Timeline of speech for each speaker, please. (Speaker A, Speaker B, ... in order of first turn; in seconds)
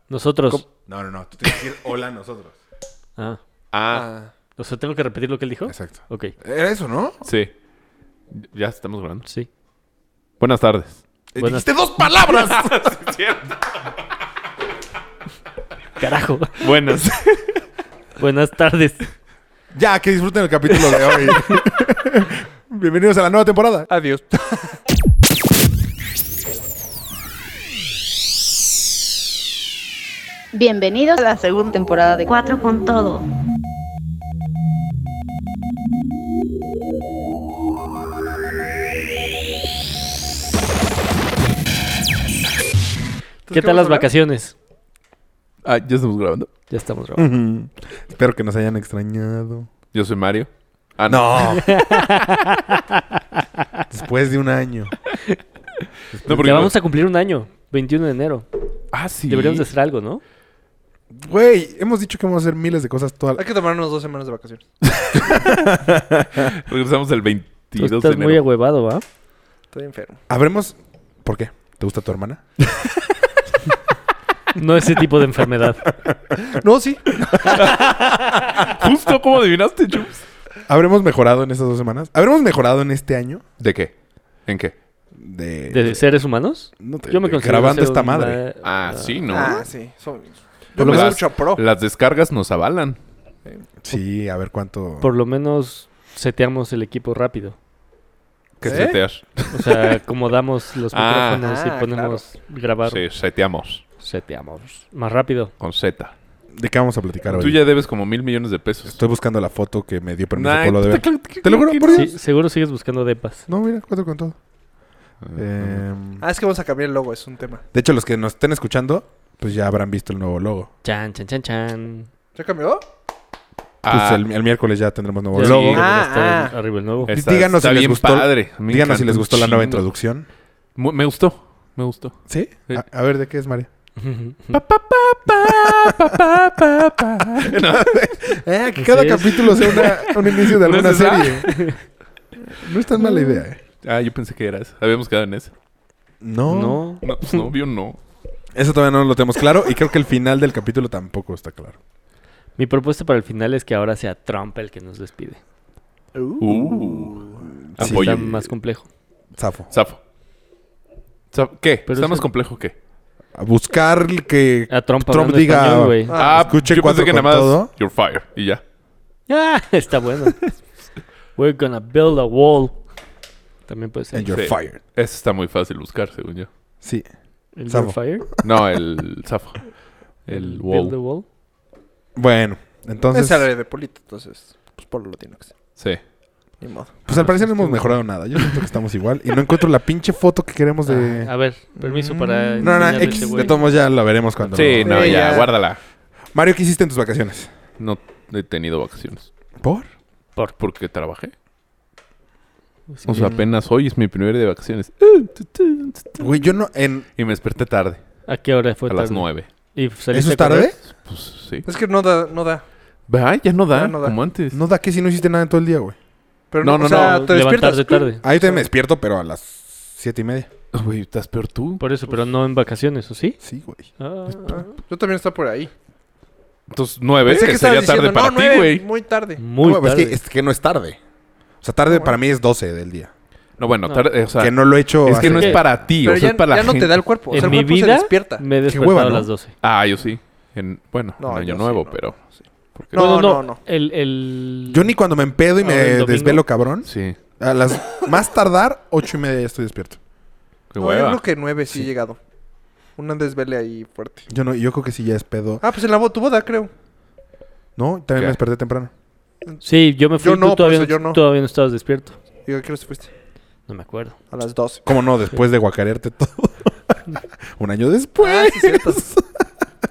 Speaker A: 0.1-0.6, 4.6-6.3, 11.4-11.7, 16.0-16.7, 18.2-19.0, 43.5-44.5, 46.7-47.3, 51.6-53.0, 56.3-58.5, 59.3-60.2, 67.8-69.0, 74.5-75.9, 85.7-89.2, 95.0-97.5, 99.5-103.0, 104.0-105.5, 111.9-113.5, 120.8-122.1, 125.3-127.1, 134.0-134.6, 138.8-139.6, 141.4-141.8, 146.5-147.4, 152.6-155.4, 157.8-158.9, 161.9-162.3, 164.7-166.1, 169.3-170.5, 171.3-172.8, 173.7-174.3, 177.6-178.3, 180.3-181.2, 187.1-188.0, 190.8-193.7, 202.9-203.3, 208.3-210.8, 216.8-218.2, 221.8-223.4, 224.0-224.7, 229.4-230.2, 235.1-235.6, 237.3-239.5, 242.9-244.9, 245.6-246.4, 259.6-262.2, 263.7-264.2
Speaker B: 0.9-2.5, 5.7-7.2, 11.3-12.9, 19.7-23.9, 47.2-49.7, 51.1-51.9, 53.9-55.0, 56.1-56.7, 61.1-63.4, 65.3-66.5, 70.3-72.4, 77.2-77.6, 80.7-83.4, 85.1-86.0, 86.8-88.4, 90.8-91.2, 93.8-95.1, 106.5-107.6, 108.8-112.1, 113.5-114.3, 115.3-116.2, 117.7-120.7, 123.9-125.8, 127.1-130.2, 132.3-133.7, 135.4-136.1, 137.4-141.5, 142.6-143.6, 146.2-146.8, 148.5-151.8, 157.7-158.2, 159.4-159.7, 163.3-167.7, 174.1-174.8, 176.8-177.1, 177.7-178.5, 182.2-183.5, 187.1-191.3, 192.6-195.4, 196.3-197.5, 199.6-199.9, 206.2-207.1, 210.1-210.8, 214.5-215.9, 218.2-220.5, 223.4-223.9, 229.6-231.0, 231.6-233.1, 234.4-235.8, 238.6-239.3, 244.7-250.0, 254.3-255.6, 257.8-258.9, 264.8-266.7, 267.6-269.2
Speaker C: 3.7-4.1, 7.2-7.5, 8.3-9.3, 10.4-11.0, 12.2-13.5, 16.6-17.6, 45.6-46.5, 49.9-51.8, 56.2-56.7, 58.9-59.6, 64.9-65.7, 66.3-68.4, 77.5-80.2, 83.6-83.9, 84.5-84.7, 88.6-89.7, 90.8-93.0, 98.6-99.9, 100.9-101.4, 102.9-103.8, 105.6-106.1, 107.3-109.0, 110.3-112.2, 115.2-115.8, 123.8-124.2, 125.4-125.8, 127.0-129.9, 130.8-132.8, 134.5-137.9, 139.5-141.8, 143.8-145.5, 147.0-148.0, 156.4-158.5, 159.7-160.0, 161.3-162.7, 166.1-168.6, 174.3-176.5, 178.4-180.9, 194.5-195.8, 197.8-199.3, 200.6-201.3, 203.1-206.4, 207.2-208.0, 208.9-209.5, 211.0-211.7, 213.1-214.6, 216.6-217.3, 220.7-221.8, 226.7-228.8, 233.6-237.6, 239.6-242.2, 242.8-243.3, 246.8-247.2, 250.7-251.2
Speaker D: 3.9-4.3, 23.9-24.8, 43.5-44.1, 63.4-64.6, 69.7-70.2, 76.5-77.1, 89.3-91.6, 98.6-99.0, 101.4-102.2, 116.2-117.6, 122.3-122.8, 125.7-126.5, 166.1-166.5, 183.1-185.5, 186.6-187.0, 191.8-193.6, 194.8-195.5, 211.7-212.6, 213.7-214.2, 216.5-218.6, 224.4-225.7, 227.2-229.4, 236.0-238.4, 241.2-242.3, 242.9-243.6, 250.8-252.2, 252.9-254.3, 255.6-256.7, 260.2-261.2, 262.4-263.1, 264.3-264.9, 268.2-269.1
Speaker E: 30.5-33.2